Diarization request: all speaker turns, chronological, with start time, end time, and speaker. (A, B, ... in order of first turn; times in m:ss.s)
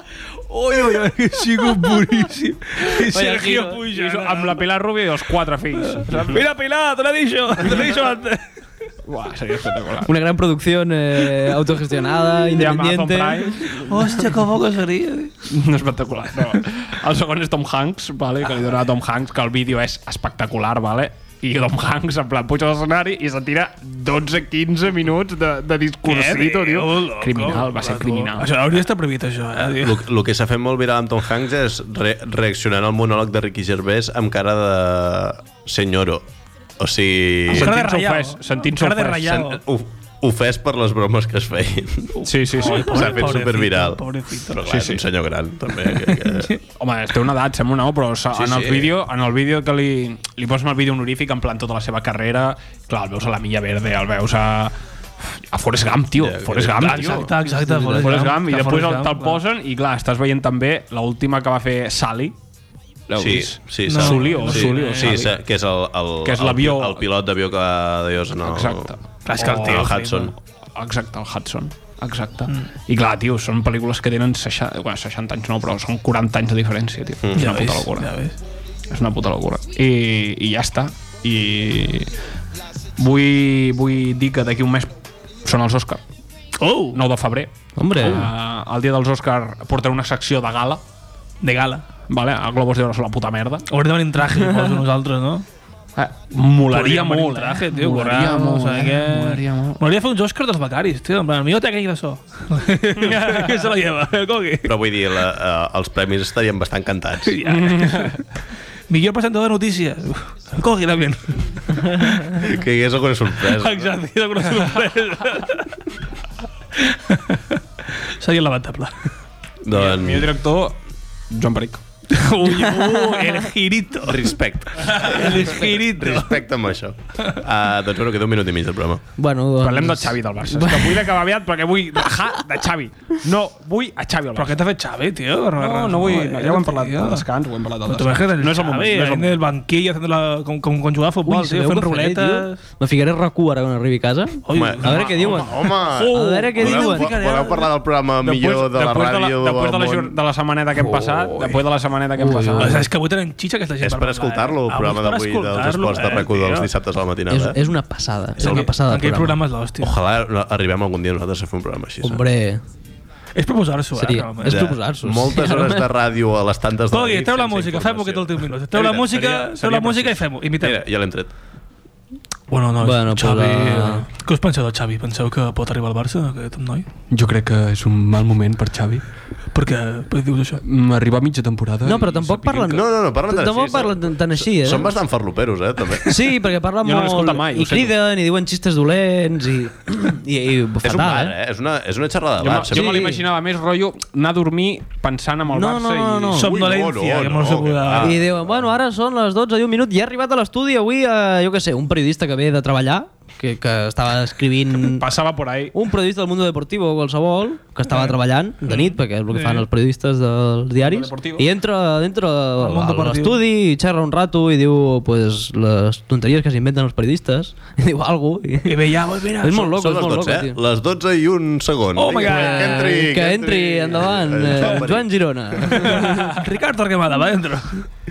0:00.5-0:04.6 A
0:02.8-0:03.8 B
0:03.9-0:06.4 C
0:05.8-0:08.4 A
0:09.1-0:10.1 C
0:10.1-0:13.8 B
0:12.6-0:13.7 C
0:13.7-0:15.3 A
0:15.5-0:28.6 C
0:26.1-0:30.0 A
0:29.8-0:36.3 D
0:36.8-0:37.8 D
0:37.5-0:39.6 C
0:37.5-0:39.6 A
0:39.6-0:46.6 D
0:42.2-0:44.6 A
0:42.2-0:43.3 C
0:44.7-0:45.0 C
0:46.1-0:46.6 A
0:46.8-1:02.4 C
0:48.3-0:48.9 D
0:56.2-0:57.3 D
0:56.8-0:59.4 A
1:03.1-1:05.4 C
1:03.2-1:10.3 D
1:03.9-1:05.2 A
1:06.2-1:07.1 C
1:08.5-1:10.0 C
1:09.3-1:10.3 A
1:10.8-1:18.1 C
1:17.2-1:17.7 D
1:17.4-1:18.4 A
1:18.9-1:22.1 C
1:23.0-1:24.9 C
1:25.4-1:26.0 C
1:26.6-1:27.0 A
1:26.9-1:30.8 C
1:27.8-1:28.3 B
1:31.4-1:31.8 A
1:32.1-1:33.7 C
1:33.7-1:35.4 A
1:36.0-1:39.8 C
1:36.7-1:44.8 A
1:43.0-1:43.7 C
1:44.6-1:47.5 D
1:47.2-1:48.2 A
1:47.4-1:48.2 C
1:48.9-1:52.4 A
1:52.4-1:54.0 D
1:53.4-1:55.8 A
1:56.8-1:57.6 A
1:58.2-1:59.1 A
1:59.6-2:00.3 D
1:59.7-2:00.8 C
2:01.3-2:01.8 C
2:02.1-2:04.3 A
2:02.4-2:03.4 C
2:04.0-2:09.0 D
2:04.8-2:06.4 A
2:09.2-2:11.0 B
2:09.6-2:14.6 C
2:14.4-2:17.2 A
2:15.6-2:19.4 C
2:17.9-2:22.6 A
2:21.3-2:25.4 B
2:24.5-2:27.7 A
2:24.5-2:30.2 D
2:26.1-2:27.1 B
2:28.2-2:32.9 C
2:30.9-2:31.6 D
2:32.2-2:32.9 B
2:32.6-2:36.7 A
2:33.8-2:37.6 D
2:37.3-2:39.4 B
2:38.4-2:40.0 A
2:39.8-2:42.2 D
2:42.0-2:42.6 B
2:43.4-2:44.6 A
2:44.0-2:45.9 B
2:44.4-2:48.5 D
2:46.9-2:50.8 A
2:48.7-2:50.2 C
2:50.6-2:51.3 D
2:52.5-2:56.9 A
2:52.8-2:54.0 B
2:57.1-2:59.0 C
2:59.5-3:00.6 A
3:00.6-3:02.7 C
3:01.8-3:04.9 B
3:02.7-3:06.2 D
3:06.1-3:11.3 B
3:06.8-3:07.9 C
3:10.8-3:13.2 D
3:12.4-3:16.4 C
3:12.7-3:13.2 B
3:15.5-3:16.5 B
3:16.4-3:18.2 A
3:16.4-3:18.6 D
3:18.0-3:25.1 B
3:24.8-3:25.7 C
3:25.7-3:38.8 B
3:27.9-3:28.2 A
3:28.7-3:29.6 A
3:30.8-3:31.4 C
3:32.6-3:33.4 A
3:38.6-3:39.7 A
3:39.4-3:40.6 B
3:39.6-3:45.7 D
3:42.0-3:43.0 A
3:42.1-3:46.1 B
3:45.6-3:47.9 A